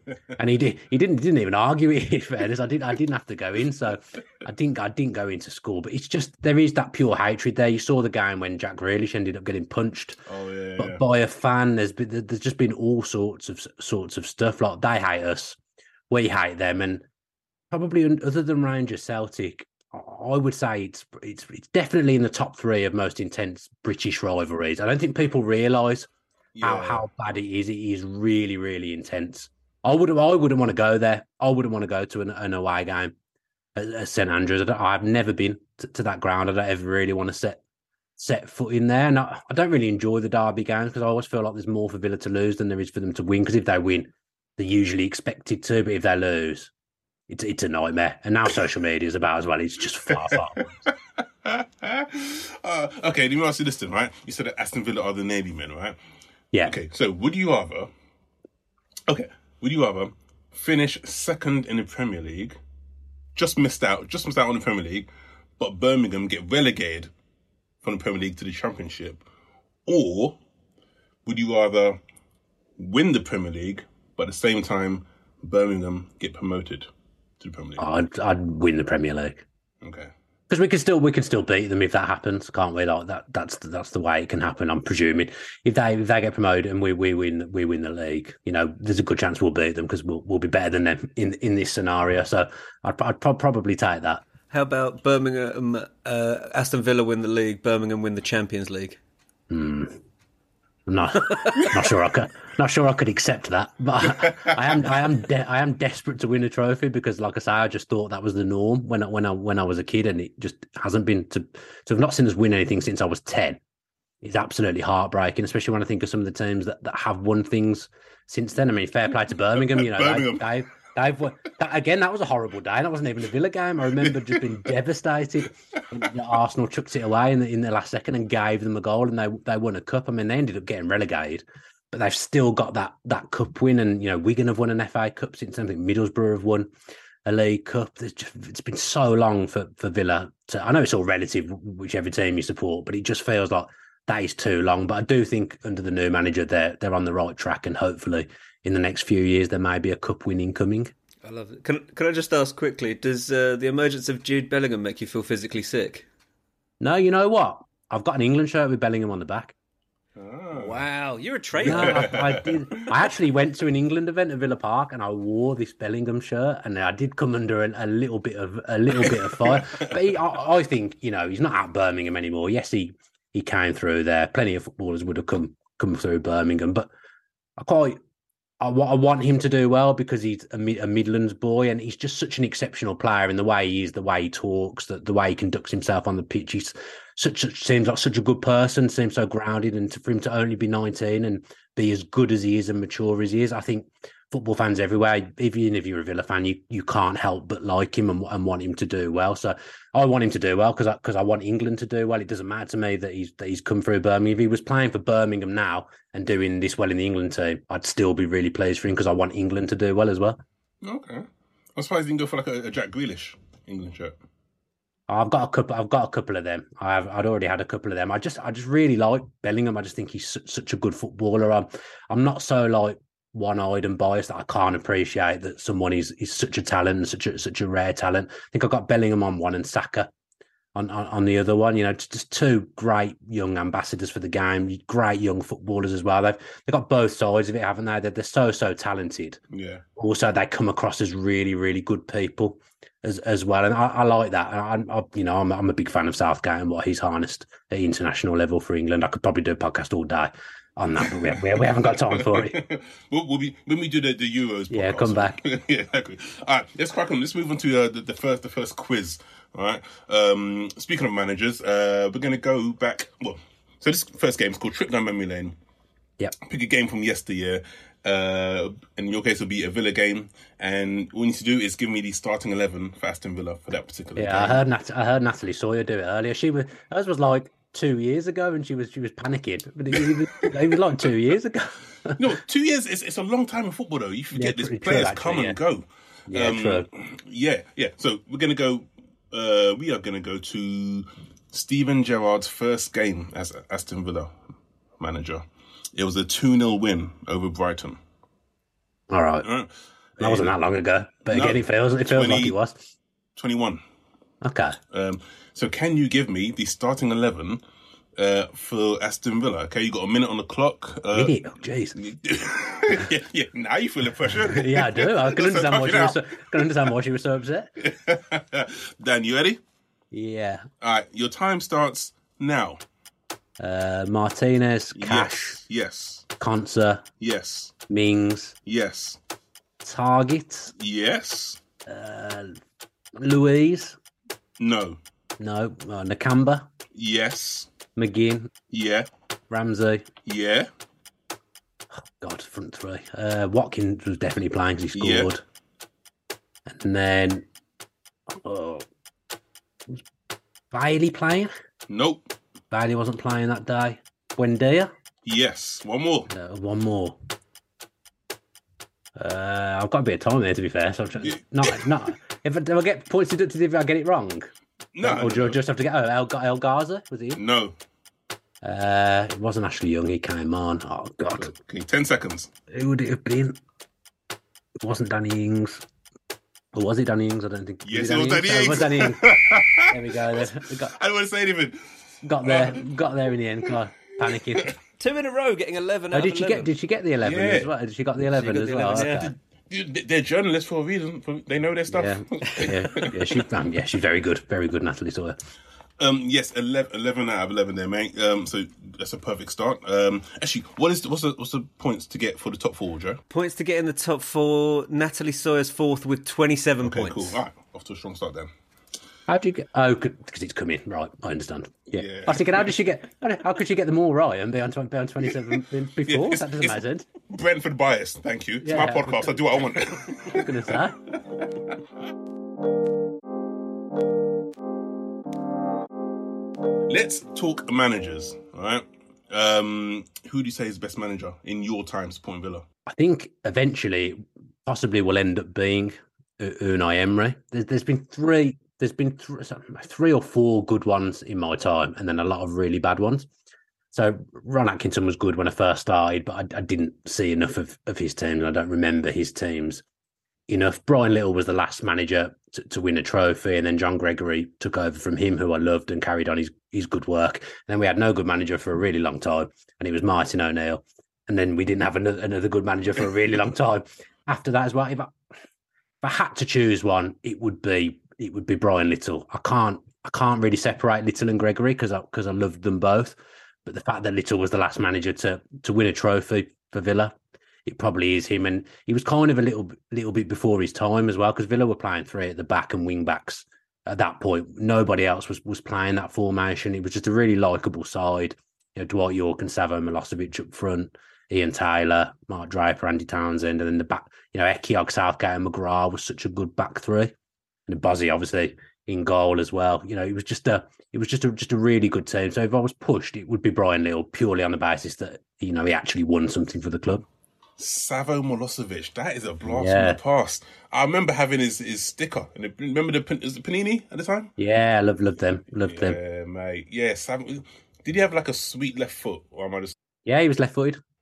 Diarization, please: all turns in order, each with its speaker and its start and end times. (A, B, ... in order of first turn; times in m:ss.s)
0:00.4-0:10.2 A
0:10.2-0:11.0 B
0:10.8-0:15.6 A
0:16.1-0:17.0 A
0:17.7-0:26.1 A
0:26.5-0:27.0 B
0:26.6-0:33.1 A
0:33.8-0:37.6 A
0:38.2-0:46.7 A
0:47.3-0:50.7 A
0:50.1-0:56.0 B
0:56.6-0:57.9 B
0:59.1-1:02.6 B
1:03.3-1:05.1 B
1:05.6-1:07.1 B
1:07.8-1:09.2 B
1:09.8-1:10.4 B
1:11.2-1:12.0 B
1:12.8-1:16.9 B
1:17.4-1:17.8 B
1:17.8-1:19.4 A
1:19.8-1:20.1 B
1:20.5-1:34.2 A
1:34.5-1:39.0 C
1:39.5-1:40.0 A
1:40.9-1:53.6 A
1:44.1-1:44.6 B
1:54.2-2:16.7 A
1:59.5-2:00.5 B
2:04.0-2:04.5 B
2:17.2-2:30.9 A
2:31.2-2:36.0 C
2:36.8-2:39.5 A
2:40.2-2:40.8 B
2:40.5-2:42.2 C
2:41.6-2:42.7 B
2:41.6-2:56.9 A
2:49.0-2:50.0 B
2:57.6-2:58.0 A
2:58.6-3:30.4 A
3:30.8-3:34.2 B
3:35.1-3:50.1 A
3:50.7-3:59.4 A
3:59.5-3:59.8 B
4:00.0-4:12.6 A
4:11.0-4:25.6 B
4:14.7-4:15.4 A
4:26.4-4:34.6 B
4:34.2-4:42.2 A
4:42.2-4:54.4 B
4:44.3-4:45.6 A
4:46.3-4:46.9 A
4:55.0-4:58.0 B
4:59.1-4:59.5 A
4:59.4-5:00.6 B
5:00.2-5:02.9 A
5:01.3-5:02.6 B
5:03.4-5:03.8 B
5:04.4-5:04.8 A
5:04.9-5:07.6 B
5:08.2-5:11.3 B
5:11.1-5:12.0 A
5:12.0-5:16.7 B
5:14.5-5:17.7 A
5:17.8-5:19.6 B
5:20.1-5:20.7 A
5:20.8-5:22.8 B
5:23.6-5:25.6 A
5:24.9-5:26.3 B
5:26.4-5:27.0 A
5:27.2-5:27.7 B
5:27.9-5:28.6 A
5:28.6-5:29.2 B
5:29.8-5:30.7 A
5:30.8-5:31.6 B
5:31.8-5:32.6 A
5:33.2-5:34.0 A
5:34.6-5:35.0 B
5:35.4-5:36.7 A
5:36.9-5:37.7 B
5:38.0-5:38.5 A
5:38.7-5:39.1 B
5:39.5-5:40.1 A
5:40.2-5:40.7 B
5:42.0-5:45.4 A
5:44.9-5:45.3 B
5:46.7-5:47.4 A
5:48.3-5:48.8 A
5:50.7-5:51.5 A
5:51.9-5:52.3 B
5:52.7-5:54.9 A
5:55.2-5:56.3 B
5:56.3-5:57.2 A
5:59.2-6:07.4 A
6:01.2-6:01.9 B
6:04.9-6:05.6 B
6:07.3-6:07.8 B
6:08.6-6:11.5 A
6:11.4-6:12.5 B
6:12.7-6:13.6 A
6:14.8-6:15.8 A
6:16.7-6:19.2 A
6:17.8-6:21.9 B
6:19.8-6:21.0 A
6:22.2-6:24.7 A
6:22.4-6:22.9 B
6:24.2-6:24.7 B
6:25.0-6:26.7 C
6:26.1-6:29.3 A
6:27.2-6:27.7 B
6:28.2-6:29.3 C
6:28.9-6:33.4 B
6:31.9-6:35.4 A
6:36.0-6:43.2 B
6:43.3-6:47.4 C
6:46.8-6:48.5 B
6:49.3-6:57.1 A
6:51.9-6:52.7 B
6:56.1-7:01.8 B
6:58.6-6:59.3 A
7:00.2-7:01.0 A
7:06.9-7:12.6 B
7:12.9-7:23.3 A
7:23.9-7:29.8 A
7:30.5-7:45.1 A
7:46.0-8:17.1 A
8:17.7-8:27.0 A
8:27.6-8:34.3 B
8:29.4-8:30.0 A
8:34.4-8:36.0 A
8:35.6-8:39.7 B
8:40.0-8:40.8 A